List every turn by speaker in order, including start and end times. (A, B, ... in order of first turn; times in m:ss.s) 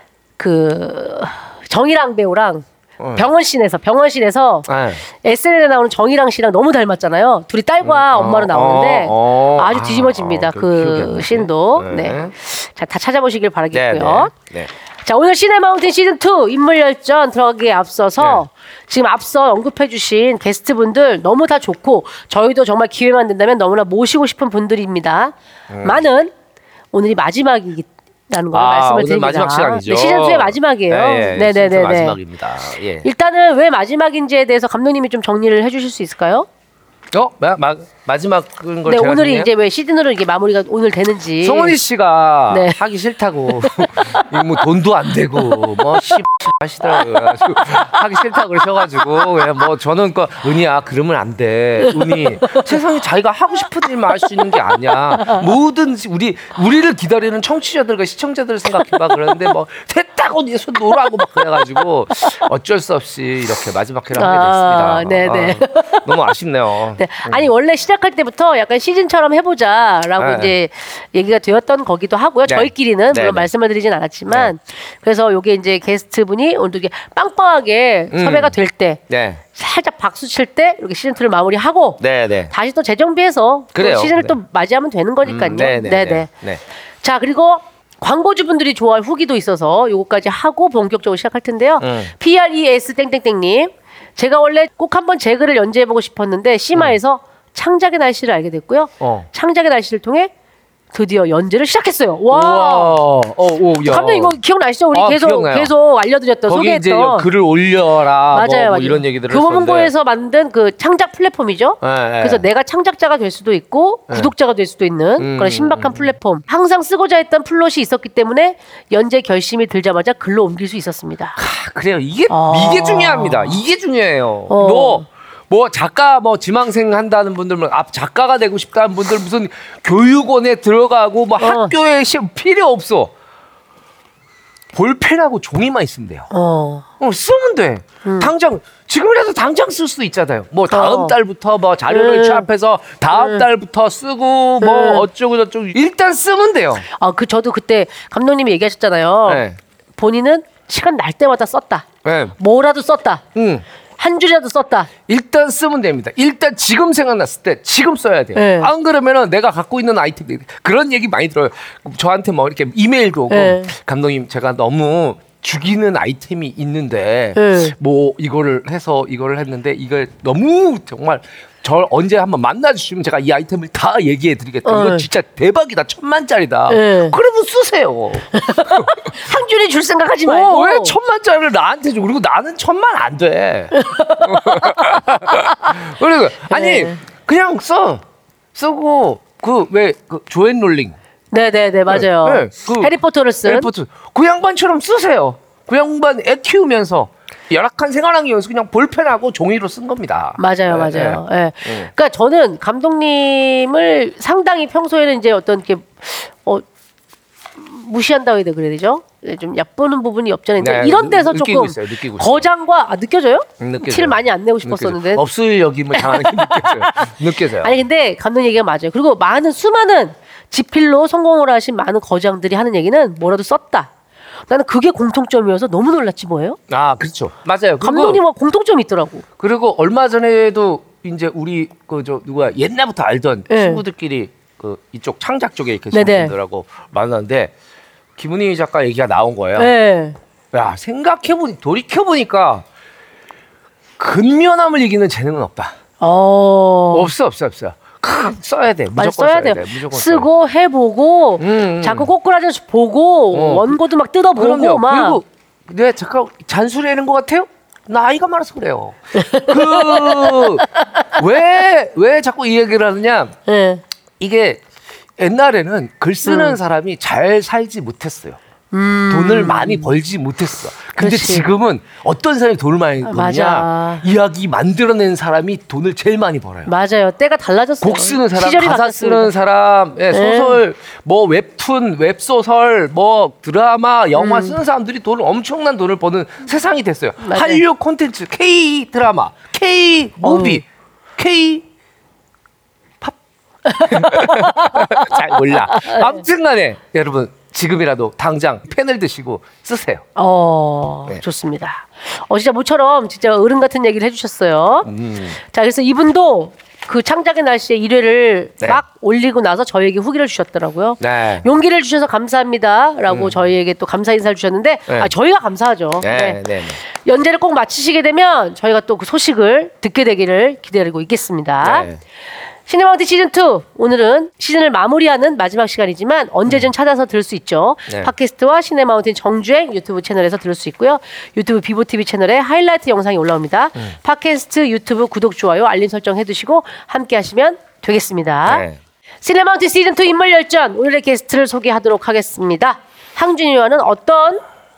0:00.4-0:02.6 A
0:03.0-0:03.3 B
0:03.2-0:04.7 A
0:04.7-0:05.0 B
0:05.2-0:14.3 A
0:07.8-0:12.3 B
0:13.7-0:14.7 B
0:15.1-0:26.3 A
0:25.7-0:26.0 B
0:26.9-0:32.2 A
0:28.5-0:33.1 B
0:33.0-0:36.5 A
0:37.1-0:39.5 B
0:38.9-0:41.8 A
0:41.4-1:07.5 B
0:42.5-0:42.8 A
1:04.1-1:06.1 A
1:07.0-1:19.0 A
1:10.2-1:10.5 B
1:12.5-1:13.5 B
1:18.1-1:18.6 B
1:19.1-1:19.4 B
1:19.6-1:22.0 A
1:22.0-1:22.5 B
1:22.5-1:26.3 A
1:23.8-1:24.4 B
1:25.2-1:26.6 B
1:27.0-1:40.3 A
1:31.8-1:32.1 B
1:39.0-1:39.3 B
1:40.9-1:43.0 A
1:42.3-1:44.4 B
1:43.8-1:47.3 A
1:44.9-1:45.7 B
1:46.5-1:49.9 B
1:48.3-2:01.4 A
1:51.8-1:52.4 B
1:55.2-1:56.1 B
2:01.4-2:13.1 B
2:02.3-2:03.6 A
2:04.5-2:05.0 A
2:11.4-2:11.7 A
2:14.7-2:16.3 B
2:16.3-2:16.8 A
2:17.0-2:26.8 B
2:18.0-2:18.3 A
2:20.7-2:21.2 A
2:21.9-2:22.5 A
2:23.1-2:23.4 A
2:24.6-2:25.0 A
2:26.9-2:29.4 A
2:29.3-2:29.6 B
2:30.0-2:31.8 A
2:32.0-2:32.4 B
2:32.4-2:33.2 A
2:33.4-2:33.6 B
2:34.0-2:34.9 A
2:35.1-2:59.0 B
2:38.4-2:38.7 A
2:43.3-2:43.7 A
2:47.4-2:47.7 A
2:54.6-2:55.1 A
2:56.7-2:57.2 A
2:58.4-3:01.0 A
3:00.3-3:08.0 B
3:03.7-3:05.7 A
3:06.5-3:07.0 A
3:08.6-3:11.0 B
3:11.3-3:13.7 A
3:11.9-3:21.9 B
3:20.4-3:26.6 A
3:27.6-3:35.2 A
3:30.6-3:32.5 B
3:33.6-3:37.8 B
3:35.9-3:43.9 A
3:44.5-3:46.6 A
3:46.7-3:48.2 B
3:47.8-3:49.2 A
3:49.4-3:57.5 B
3:53.5-3:53.8 A
3:55.9-3:56.3 A
3:58.2-3:59.7 B
3:59.6-4:00.2 A
4:00.5-4:02.6 B
4:04.0-4:05.8 B
4:06.0-4:07.1 A
4:06.9-4:10.3 B
4:09.0-4:15.2 A
4:11.4-4:12.1 B
4:13.3-4:13.8 B
4:14.4-4:23.4 B
4:19.2-4:21.0 A
4:23.5-4:23.8 A
4:24.2-4:24.6 B
4:25.2-4:28.4 B
4:26.2-4:26.6 A
4:28.7-4:29.9 A
4:29.1-4:36.7 B
4:31.0-4:31.5 A
4:33.0-4:34.0 A
4:36.7-4:39.3 A
4:37.8-4:50.6 B
4:40.1-4:40.6 A
4:44.2-4:44.6 A
4:47.2-4:47.6 A
4:50.2-4:50.6 A
4:51.2-4:51.6 B
4:53.7-4:55.1 A
4:53.8-5:00.0 B
4:55.7-4:56.2 A
5:00.2-5:04.9 A
5:04.8-5:05.4 B
5:05.5-5:16.4 A
5:11.0-5:11.5 B
5:13.1-5:13.4 B
5:16.0-5:16.8 B
5:17.0-5:21.9 A
5:21.6-5:22.0 B
5:22.7-5:38.6 A
5:38.5-5:38.8 B
5:39.2-5:44.4 A